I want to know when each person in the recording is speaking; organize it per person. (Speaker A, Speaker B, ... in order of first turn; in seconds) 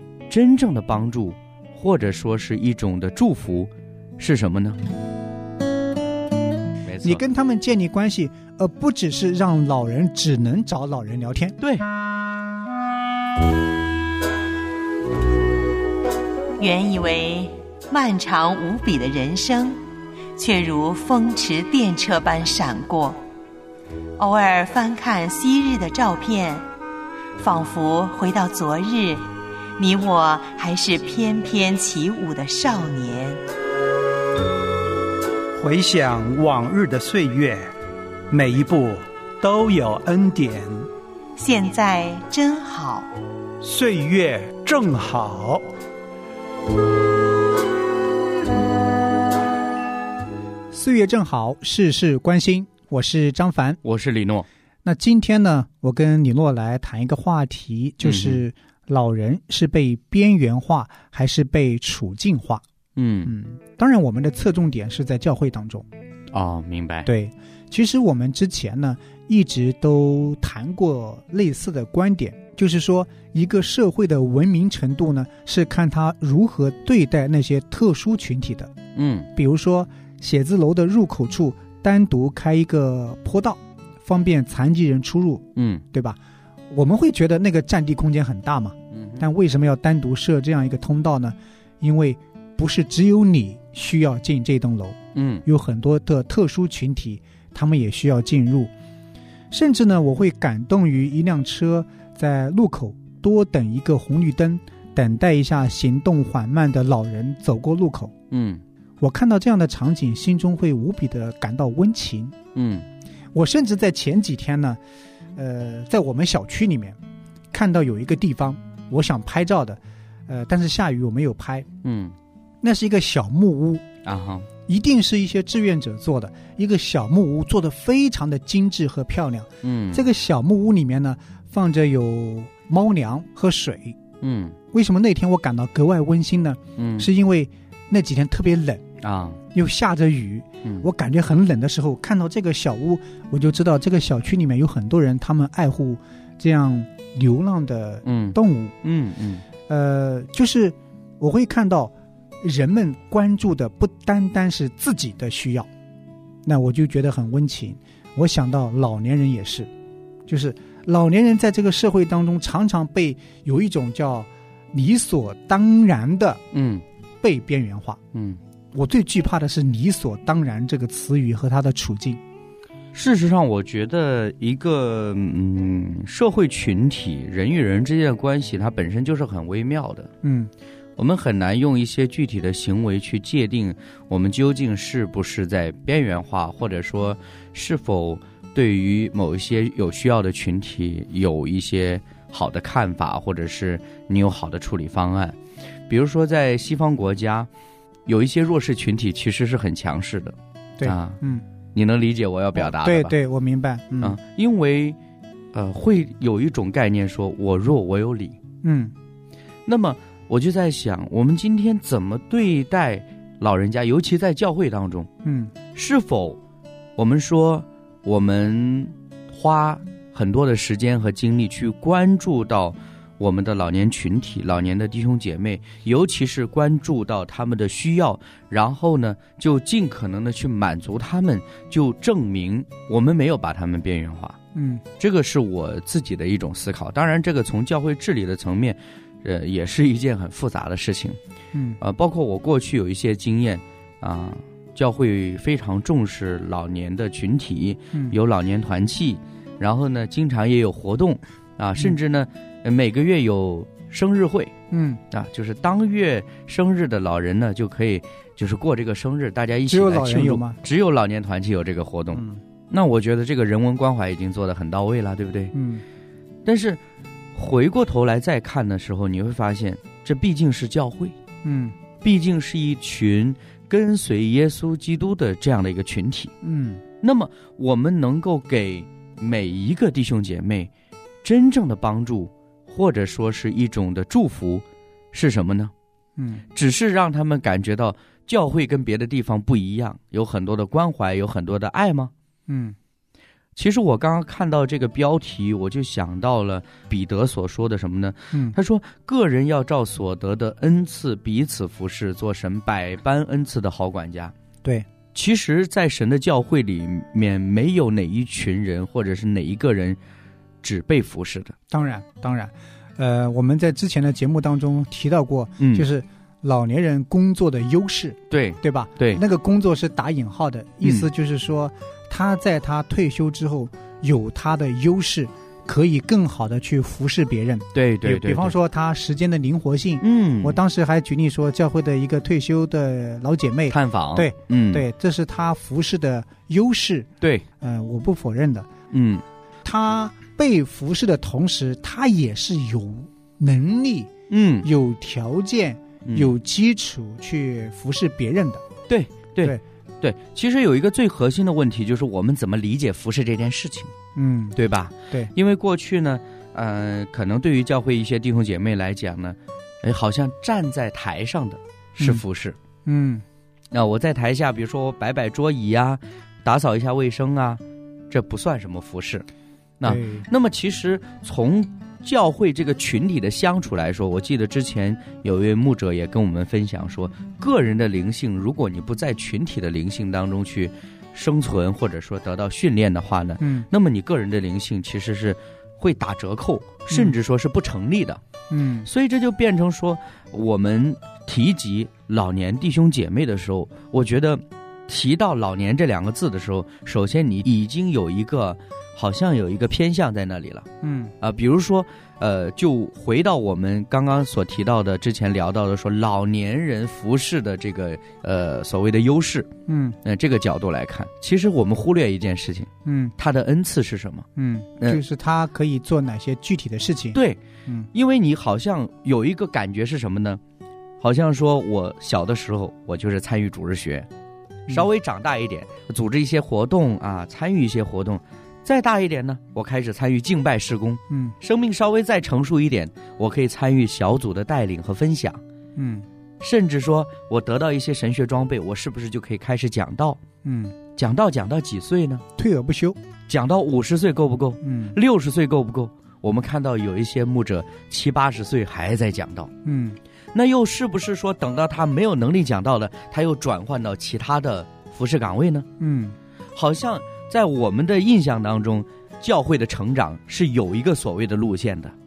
Speaker A: 0.3-4.8, 6.8-7.2, 11.6-11.8, 53.8-54.5, 58.0-58.4, 63.0-63.3, 66.3-67.1, 79.0-79.3, 85.5-85.8, 88.9-89.2, 95.1-95.4, 108.3-108.6, 112.5-112.8, 121.8-122.1, 124.0-124.5, 129.6-130.0, 134.2-134.6, 136.8-137.1, 139.0-139.4, 148.0-149.4, 166.5-166.8, 168.1-168.4, 172.9-180.1, 181.0-195.3, 195.9-197.5, 198.1-201.2, 201.8-203.1, 204.0-205.0, 205.5-208.4, 209.7-215.1, 215.7-216.4, 216.9-234.4, 235.0-241.2, 241.8-254.5, 255.1-265.5, 266.4-266.8, 267.3-271.1, 272.0-276.3, 277.0-280.7, 281.2-285.7, 286.5-292.1, 293.6-304.3, 305.1-310.0, 310.6-311.5, 315.6-315.9, 318.3-319.2, 320.8-321.1, 327.7-328.6, 330.0-330.6, 333.7-334.8, 337.2-337.4, 338.9-339.2, 344.3-344.7, 346.1-346.3, 348.9-353.9, 354.6-362.6, 363.7-369.2, 369.8-388.2, 388.9-400.7, 401.2-409.5, 410.0-414.2, 417.1-417.4, 417.9-420.4, 421.0-424.1, 424.7-435.4, 436.4-440.2, 440.9-442.2, 443.3-449.5, 450.3-455.6, 456.6-461.9
Speaker B: 7.0-11.6, 50.7-53.8, 54.8-62.6, 63.2-65.9, 67.1-78.7, 79.3-86.2, 86.7-98.7, 99.5-108.1, 109.0-112.3, 113.3-114.8, 115.3-117.0, 117.5-121.7, 122.6-123.8, 124.7-133.9, 134.7-138.8, 139.5-148.7, 149.7-155.7, 156.4-159.7, 160.3-166.4, 167.2-168.0, 168.7-172.2, 180.2-180.5, 200.8-201.4, 202.5-204.2, 208.6-208.9, 215.2-215.5, 234.5-234.8, 241.5-241.8, 254.7-255.0, 259.7-260.6, 262.1-262.4, 265.5-265.8, 271.4-271.8, 276.4-276.8, 286.2-286.4, 292.5-292.8, 311.7-337.1, 337.6-338.7, 339.6-344.1, 344.6-348.6, 354.1-354.6, 362.0-362.2, 362.9-363.2, 369.8-370.3, 383.4-383.7, 386.9-387.1, 388.5-388.9, 400.8-401.1, 409.7-410.0, 412.8-413.1, 414.4-417.9, 431.1-431.4, 435.8-436.1, 440.4-440.8, 442.4-443.0, 444.6-445.0, 449.6-450.0, 455.8-456.1
Speaker C: 16.6-19.8, 20.3-23.2, 24.2-26.7, 27.4-33.4, 41.4-43.1
Speaker D: 35.6-37.7, 38.3-40.9, 43.6-45.6